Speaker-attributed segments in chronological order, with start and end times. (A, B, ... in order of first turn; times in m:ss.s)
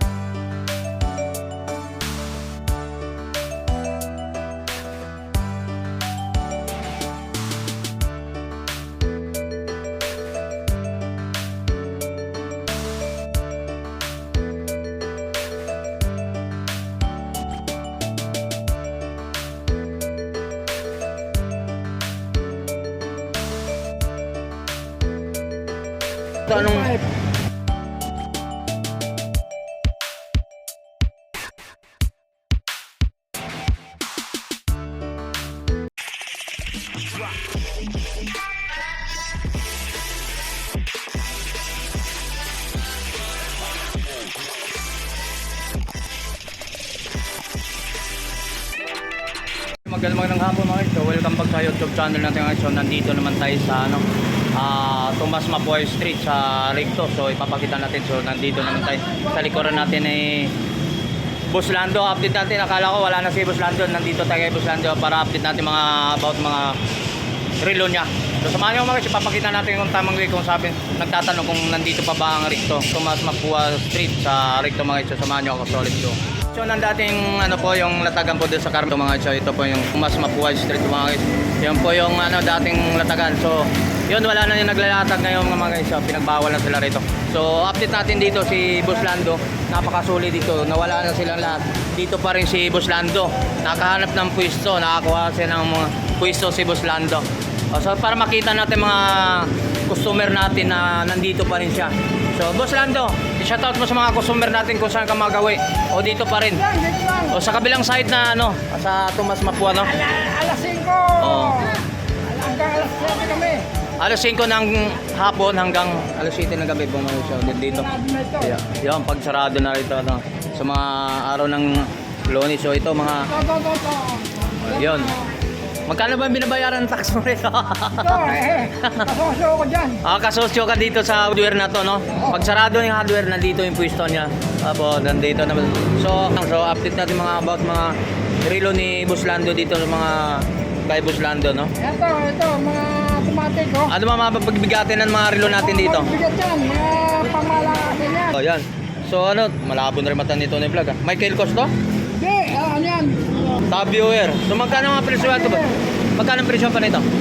0:26.5-0:26.9 A
0:26.5-0:27.0 B
0:49.8-0:54.0 A
0:54.6-1:00.5 A
1:01.5-1:06.8 A
1:07.6-1:46.6 A
1:46.5-1:47.4 B
1:47.3-1:49.9 A
1:49.8-1:53.6 B
1:51.2-1:51.6 A
1:54.0-2:03.3 A
1:57.5-1:58.6 B
2:03.3-2:05.3 B
2:04.6-2:05.2 A
2:05.9-2:09.1 A
2:08.0-2:10.0 B
2:10.0-2:21.7 A
2:21.8-2:24.0 B
2:23.9-2:26.1 A
2:25.6-2:28.4 B
2:28.3-2:31.7 A
2:32.2-2:33.6 B
2:33.7-2:35.6 A
2:35.1-2:35.8 B
2:36.2-2:37.1 A